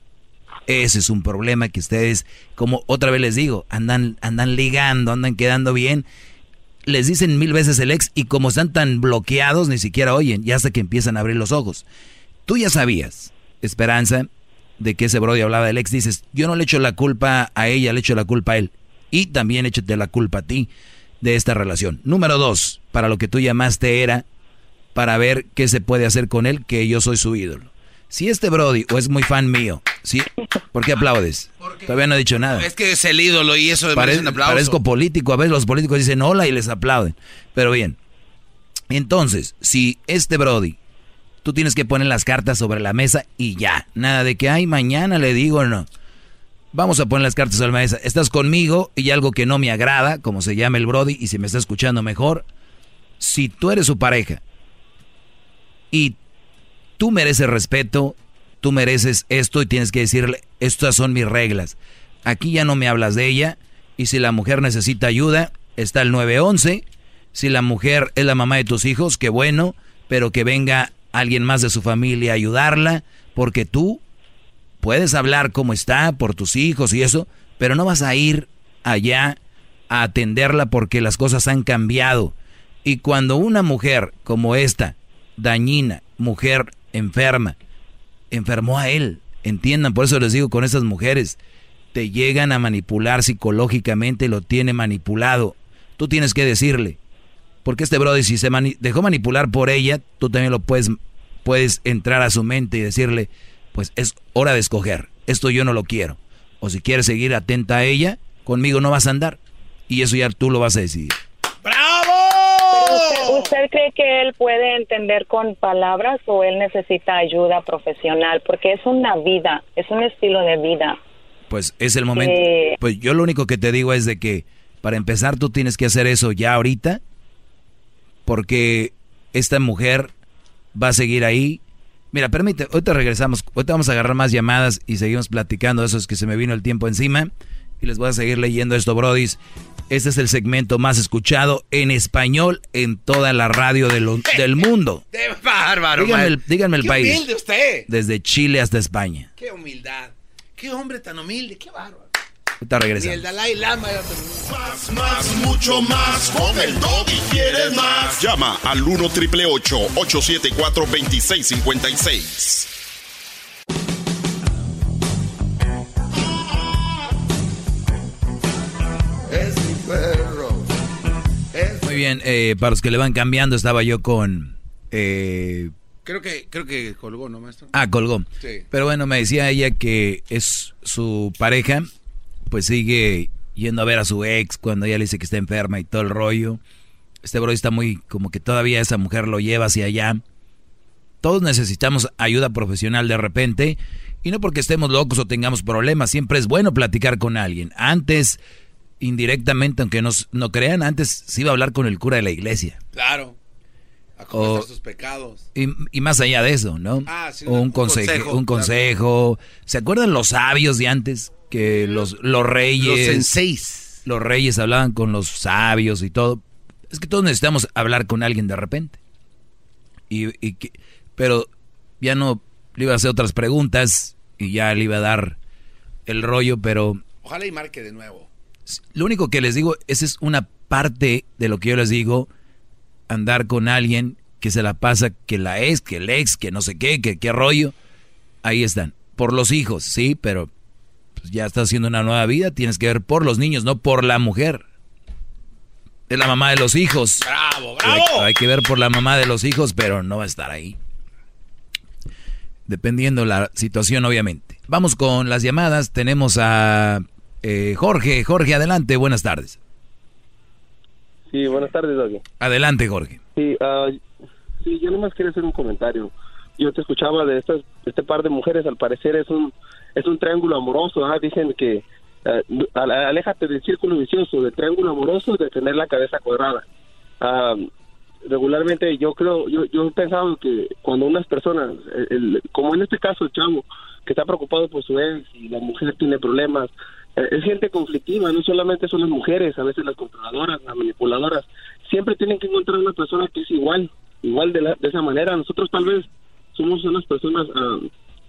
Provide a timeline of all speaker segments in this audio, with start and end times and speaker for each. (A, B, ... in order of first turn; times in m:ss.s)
0:00.7-0:06.0 A
0:06.9-0:11.8 A
0:12.4-0:14.3 A
0:14.8-0:20.7 A
0:21.2-0:24.2 A
0:24.9-0:32.7 A
0:31.6-0:34.8 B
0:33.9-0:38.0 A
0:38.9-0:40.8 A
0:41.4-0:45.9 A
0:46.7-0:52.4 A
0:53.2-0:54.4 A
0:57.0-1:14.0 A
1:14.8-1:19.4 A
1:19.9-1:22.3 A
1:22.8-1:27.6 A
1:28.3-1:31.4 A
1:31.9-1:37.0 A
1:37.6-1:49.4 A
1:49.9-1:51.1 A
1:51.6-1:53.5 B
1:52.7-2:01.0 C
2:01.5-2:07.0 A
2:02.1-2:02.8 C
2:08.2-2:10.1 A
2:10.7-2:11.6 A
2:12.1-2:17.3 A
2:17.8-2:19.4 A
2:19.9-2:25.0 A
2:25.1-2:27.8 B
2:25.9-2:27.2 A
2:27.9-2:29.3 A
2:29.4-2:32.0 B
2:32.6-2:33.2 A
2:33.0-2:35.2 B
2:34.7-2:42.6 D
2:36.4-2:38.2 B
2:49.4-2:50.3 D
2:51.8-2:55.7 A
2:56.0-2:57.7 B
2:57.7-3:01.9 A
3:02.5-3:06.6 A
3:07.2-3:10.2 A
3:11.2-3:18.4 A
3:19.0-3:22.8 A
3:22.9-3:23.3 B
3:24.2-3:25.4 B
3:24.3-3:24.7 A
3:25.5-3:33.3 A
3:27.0-3:28.7 B
3:31.6-3:32.0 B
3:32.8-3:34.0 B
3:34.0-3:39.0 A
3:40.1-3:41.5 A
3:42.0-3:45.4 A
3:46.1-3:47.0 A
3:47.2-3:48.3 B
3:48.7-3:52.3 A
3:53.1-3:57.7 A
3:58.4-4:00.5 A
4:01.2-4:04.6 A
4:06.1-4:07.3 A
4:07.2-4:08.3 B
4:07.8-4:10.8 A
4:12.7-4:19.6 A
4:21.3-4:22.2 E
4:22.4-4:23.2 A
4:23.4-4:24.0 E
4:24.6-4:36.6 E
4:37.2-4:37.7 E
4:38.2-4:57.8 E